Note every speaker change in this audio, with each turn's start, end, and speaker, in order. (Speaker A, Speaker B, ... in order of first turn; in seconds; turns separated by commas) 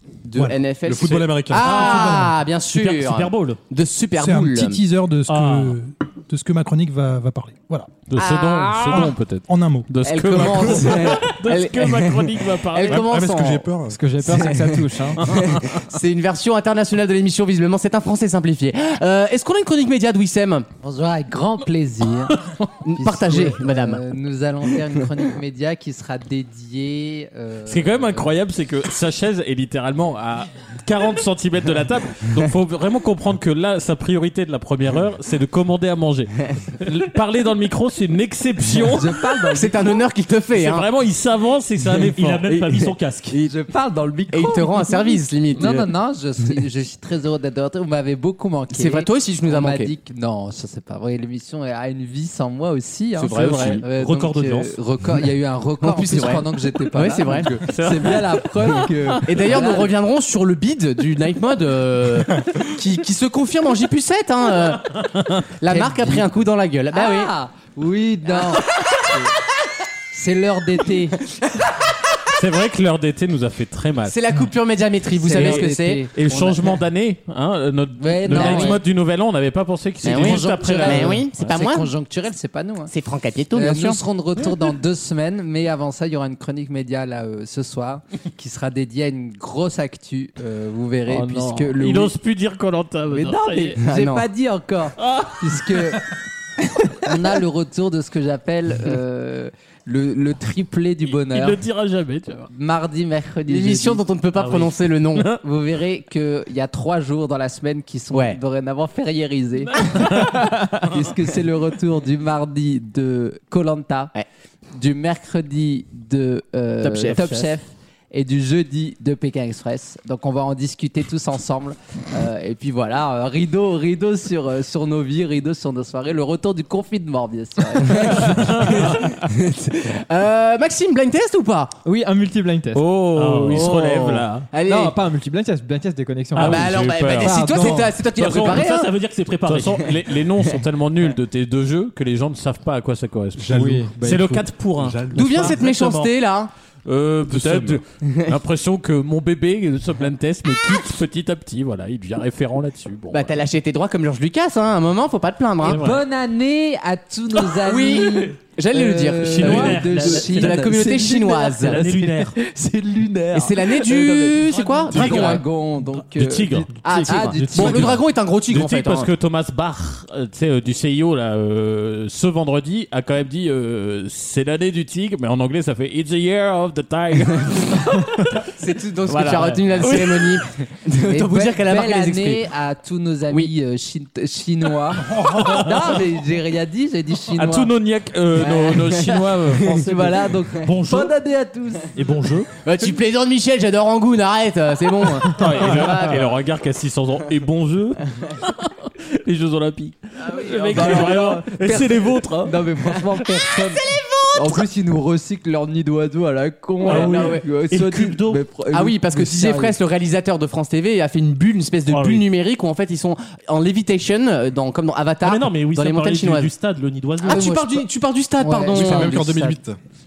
Speaker A: 0.2-4.8, Speaker B: 0.3-0.6, Speaker C: 0.8-1.9, Speaker B: 1.5-2.4, Speaker D: 1.6-3.6, Speaker B: 4.2-8.0, Speaker D: 5.3-5.8, Speaker E: 8.1-13.0, Speaker A: 8.2-9.1, Speaker B: 8.9-9.9, Speaker A: 10.0-13.7, Speaker C: 12.9-14.0, Speaker F: 13.9-15.4, Speaker A: 14.2-20.7, Speaker G: 20.8-28.3, Speaker A: 22.8-24.0, Speaker E: 27.7-39.1, Speaker G: 38.9-39.8, Speaker A: 39.5-40.9, Speaker E: 40.5-42.5, Speaker D: 41.9-43.4, Speaker G: 42.5-59.9, Speaker A: 44.3-45.9, Speaker A: 48.7-49.9, Speaker A: 53.2-53.8, Speaker D: 53.9-54.8, Speaker A: 55.8-56.4, Speaker A: 56.9-57.5, Speaker E: 57.6-58.9, Speaker A: 59.2-65.0, Speaker A: 65.6-67.3, Speaker G: 65.7-66.3, Speaker G: 66.9-69.3, Speaker G: 70.1-71.2, Speaker E: 72.3-74.1, Speaker A: 74.1-76.0, Speaker G: 75.2-76.6, Speaker E: 75.3-81.3, Speaker G: 78.0-78.8, Speaker A: 78.3-78.8, Speaker A: 80.0-81.9, Speaker G: 80.0-82.9, Speaker A: 82.9-84.0, Speaker G: 83.5-92.1, Speaker E: 91.1-93.8, Speaker G: 93.1-96.1, Speaker A: 93.8-94.2, Speaker E: 95.0-95.4, Speaker G: 96.8-101.6, Speaker E: 101.1-102.5, Speaker G: 102.5-104.0, Speaker A: 103.5-105.3, Speaker G: 105.4-114.1, Speaker A: 108.1-108.4, Speaker E: 109.7-110.3, Speaker G: 114.8-128.8, Speaker A: 116.8-117.5, Speaker A: 128.0-131.7, Speaker E: 128.2-128.8, Speaker F: 131.8-132.8, Speaker E: 132.7-134.4, Speaker D: 133.1-133.7, Speaker A: 133.5-134.9, Speaker F: 134.6-137.9, Speaker E: 136.3-138.7, Speaker A: 136.3-138.9, Speaker D: 138.2-139.9, Speaker E: 139.4-145.0, Speaker C: 143.3-145.6, Speaker F: 143.5-144.4, Speaker A: 145.1-146.5, Speaker D: 145.1-146.1, Speaker E: 146.8-153.3, Speaker C: 147.3-147.8, Speaker A: 153.1-155.8, Speaker E: 155.6-156.0, Speaker G: 155.6-168.0, Speaker A: 157.6-161.8, Speaker E: 159.3-159.8, Speaker D: 159.4-160.8, Speaker D: 161.6-162.3, Speaker A: 163.3-165.4, Speaker E: 164.9-178.4, Speaker A: 166.8-169.1, Speaker A: 178.5-182.4, Speaker E: 179.1-180.4, Speaker G: 181.0-187.7, Speaker E: 187.3-190.2, Speaker G: 188.4-192.0, Speaker D: 190.5-191.1, Speaker D: 191.9-192.5, Speaker A: 192.6-196.0, Speaker E: 195.3-202.5, Speaker G: 195.6-196.3, Speaker D: 200.4-201.4, Speaker G: 200.7-209.7, Speaker A: 206.8-207.4, Speaker D: 206.8-208.4, Speaker A: 208.7-216.5, Speaker D: 211.9-212.3, Speaker D: 215.2-217.5, Speaker A: 217.2-219.6, Speaker G: 217.3-217.8, Speaker G: 218.4-219.5, Speaker C: 218.7-219.8